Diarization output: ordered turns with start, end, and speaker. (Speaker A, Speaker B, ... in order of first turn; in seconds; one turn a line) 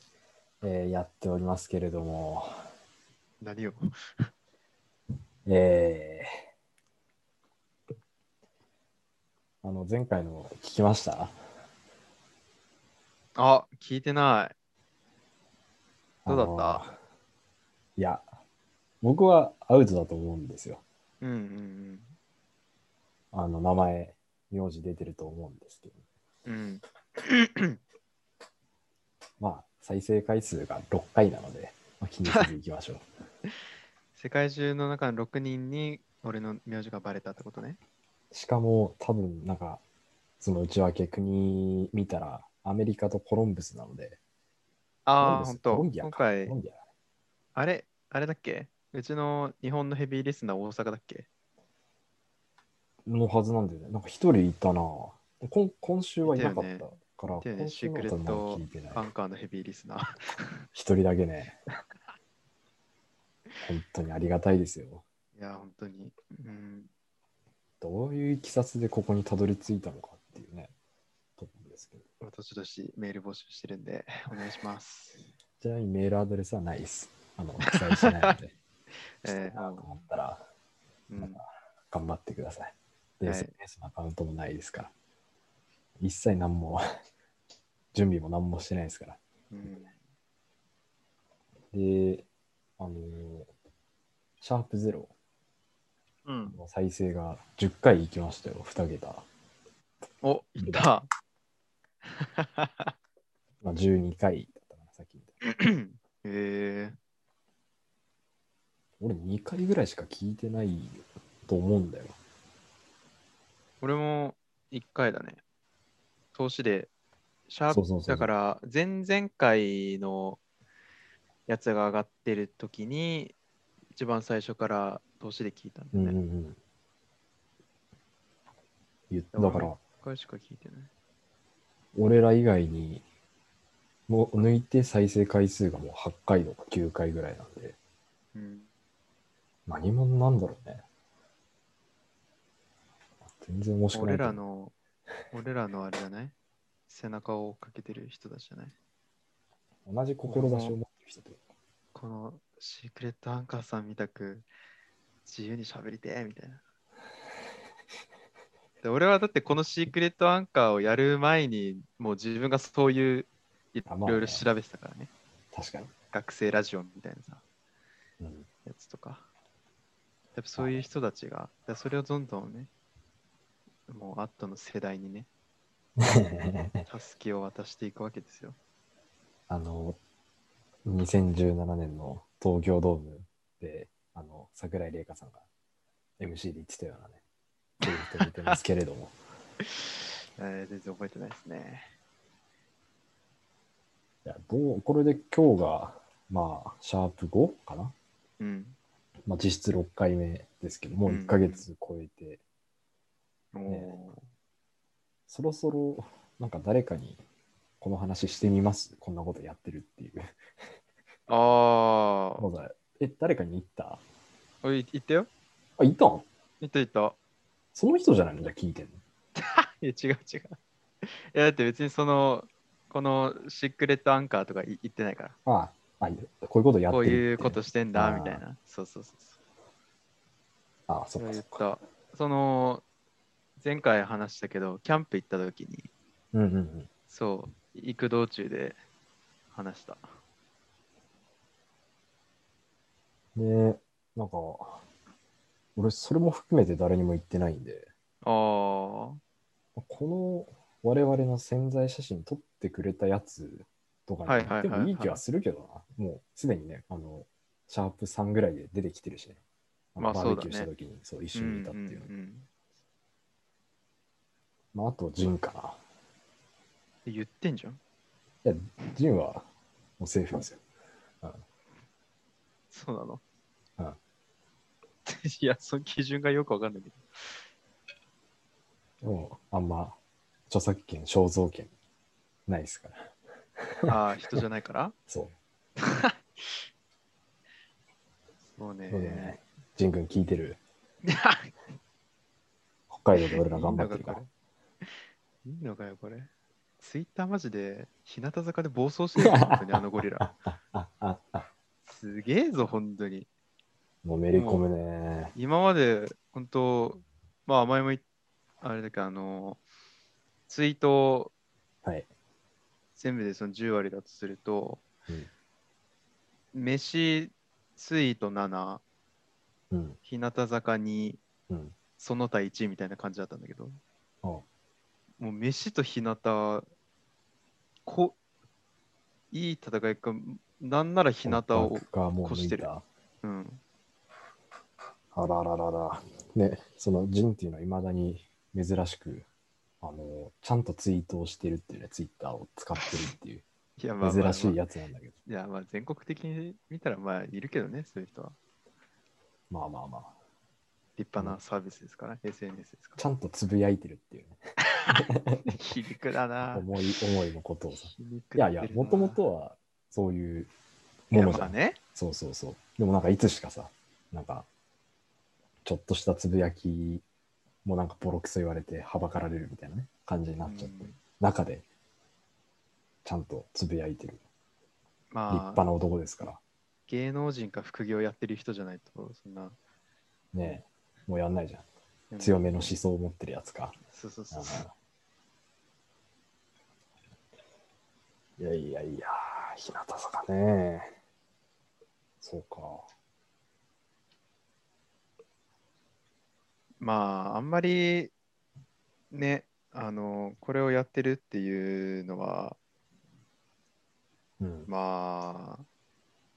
Speaker A: 0.6-2.5
Speaker B: 3.4-4.3
Speaker A: 5.5-6.3
Speaker A: 9.6-11.3
Speaker B: 13.3-14.5
Speaker A: 16.2-17.0
Speaker B: 16.3-16.8
Speaker A: 18.0-18.2
Speaker A: 19.0-20.8
Speaker B: 21.2-22.1
Speaker A: 23.3-26.0
Speaker B: 26.4-27.8
Speaker A: 29.4-33.0
Speaker B: 34.1-37.8
Speaker A: 38.3-39.8
Speaker A: 40.4-44.2
Speaker B: 45.0-46.5
Speaker A: 45.2-46.8
Speaker B: 47.5-51.3
Speaker A: 53.0-59.0
Speaker B: 56.2-56.8
Speaker B: 57.4-60.6
Speaker A: 60.7-61.6
Speaker A: 63.6-65.0
Speaker B: 65.3-66.9
Speaker A: 67.8-70.7
Speaker A: 71.4-72.0
Speaker B: 72.2-75.3
Speaker A: 75.6-78.5
Speaker B: 77.9-78.3
Speaker B: 79.2-79.8
Speaker A: 79.2-80.4
Speaker B: 81.1-81.4
Speaker A: 81.2-84.9
Speaker B: 83.2-83.5
Speaker A: 86.0-86.8
Speaker A: 87.9-89.2
Speaker B: 89.5-89.9
Speaker A: 91.7-92.3
Speaker A: 92.8-93.5
Speaker A: 94.4-95.1
Speaker B: 96.2-96.5
Speaker A: 96.5-99.2
Speaker B: 100.2-101.1
Speaker A: 100.6-100.8
Speaker B: 102.0-102.9
Speaker A: 103.6-105.3
Speaker B: 105.4-107.0
Speaker A: 109.0-112.1
Speaker B: 113.8-115.4
Speaker B: 116.3-116.9
Speaker B: 117.5-120.4
Speaker A: 117.7-118.3
Speaker B: 121.5-123.3
Speaker B: 123.9-126.2
Speaker A: 125.9-126.6
Speaker A: 129.1-129.8
Speaker B: 129.3-130.9
Speaker A: 131.9-133.0
Speaker A: 134.1-137.8
Speaker B: 138.3-138.7
Speaker A: 139.7-140.8
Speaker A: 143.4-144.4
Speaker B: 143.9-144.7
Speaker B: 145.3-146.3
Speaker B: 146.9-148.7
Speaker A: 149.8-151.4
Speaker B: 150.3-150.8
Speaker B: 151.9-154.4
Speaker B: 155.2-156.6
Speaker B: 158.8-165.1
Speaker A: 163.9-164.5
Speaker A: 165.5-165.9
Speaker B: 166.1-167.4
Speaker A: 168.2-168.5
Speaker B: 168.6-169.3
Speaker B: 170.3-172.7
Speaker A: 170.6-170.8
Speaker B: 173.9-175.3
Speaker A: 176.0-176.9
Speaker B: 176.9-178.6
Speaker A: 179.5-180.0
Speaker A: 180.8-185.4
Speaker A: 186.2-187.2
Speaker A: 187.8-189.2
Speaker B: 187.8-188.5
Speaker B: 189.8-191.9
Speaker A: 194.2-197.9
Speaker B: 198.4-198.8
Speaker A: 199.3-202.4
Speaker B: 201.1-201.6
Speaker B: 203.5-204.2
Speaker A: 203.7-203.9
Speaker A: 205.3-207.2
Speaker A: 207.8-210.3
Speaker B: 211.3-212.4
Speaker A: 212.4-214.0
Speaker B: 214.6-215.3
Speaker A: 215.8-216.3
Speaker B: 216.6-217.2
Speaker A: 217.7-219.0
Speaker B: 219.3-225.3
Speaker A: 225.4-228.4
Speaker B: 226.9-229.3
Speaker A: 230.9-231.6
Speaker B: 231.2-232.8
Speaker B: 233.6-235.9
Speaker A: 236.3-236.9
Speaker B: 237.1-238.8
Speaker B: 239.5-240.1
Speaker A: 243.3-244.8
Speaker A: 245.8-247.9
Speaker B: 248.2-249.2
Speaker A: 249.8-259.4
Speaker B: 254.2-255.2
Speaker A: 259.9-262.1
Speaker B: 260.0-260.7
Speaker B: 261.3-262.5
Speaker A: 264.7-265.8
Speaker B: 267.1-267.8
Speaker A: 268.4-269.5
Speaker A: 270.0-270.6
Speaker B: 272.7-273.2
Speaker B: 275.0-277.4
Speaker A: 279.0-280.0
Speaker A: 280.5-281.7
Speaker A: 282.5-284.4
Speaker B: 283.9-284.9
Speaker A: 285.1-285.4
Speaker B: 285.8-286.6
Speaker B: 288.5-289.4
Speaker A: 288.9-290.6
Speaker B: 291.0-291.5
Speaker A: 292.9-294.2
Speaker B: 293.2-294.3
Speaker B: 294.8-296.3
Speaker B: 296.8-300.3
Speaker A: 299.1-301.5
Speaker B: 301.9-303.3
Speaker A: 304.0-305.3
Speaker B: 304.3-304.6
Speaker B: 305.3-308.0
Speaker B: 308.6-309.6
Speaker B: 310.5-311.3
Speaker B: 312.9-314.8
Speaker B: 316.5-318.8
Speaker A: 319.7-320.0
Speaker B: 320.0-321.2
Speaker A: 321.5-321.7
Speaker B: 322.0-323.8
Speaker B: 325.2-326.7
Speaker B: 327.9-328.1
Speaker B: 329.3-332.7
Speaker A: 331.2-332.8
Speaker B: 333.2-333.6
Speaker A: 335.1-339.3
Speaker A: 339.8-343.4
Speaker B: 343.8-344.6
Speaker A: 344.0-345.1
Speaker B: 345.2-348.4
Speaker A: 349.5-350.1
Speaker B: 351.0-353.0
Speaker A: 353.0-354.4
Speaker B: 354.8-356.7
Speaker A: 354.9-355.6
Speaker A: 356.5-360.5
Speaker B: 357.8-359.2
Speaker A: 361.1-364.5
Speaker B: 361.1-361.8
Speaker A: 365.6-367.0
Speaker A: 367.6-371.6
Speaker B: 370.4-371.0
Speaker A: 373.0-374.2
Speaker B: 375.1-375.6
Speaker A: 375.3-376.4
Speaker B: 376.9-379.6
Speaker A: 380.3-381.7
Speaker B: 382.1-382.6
Speaker A: 382.2-383.8
Speaker B: 383.9-384.6
Speaker A: 384.3-384.7
Speaker A: 388.4-390.9
Speaker A: 392.2-392.9
Speaker B: 396.8-398.1
Speaker B: 399.1-402.6
Speaker A: 404.4-404.7
Speaker B: 404.7-405.6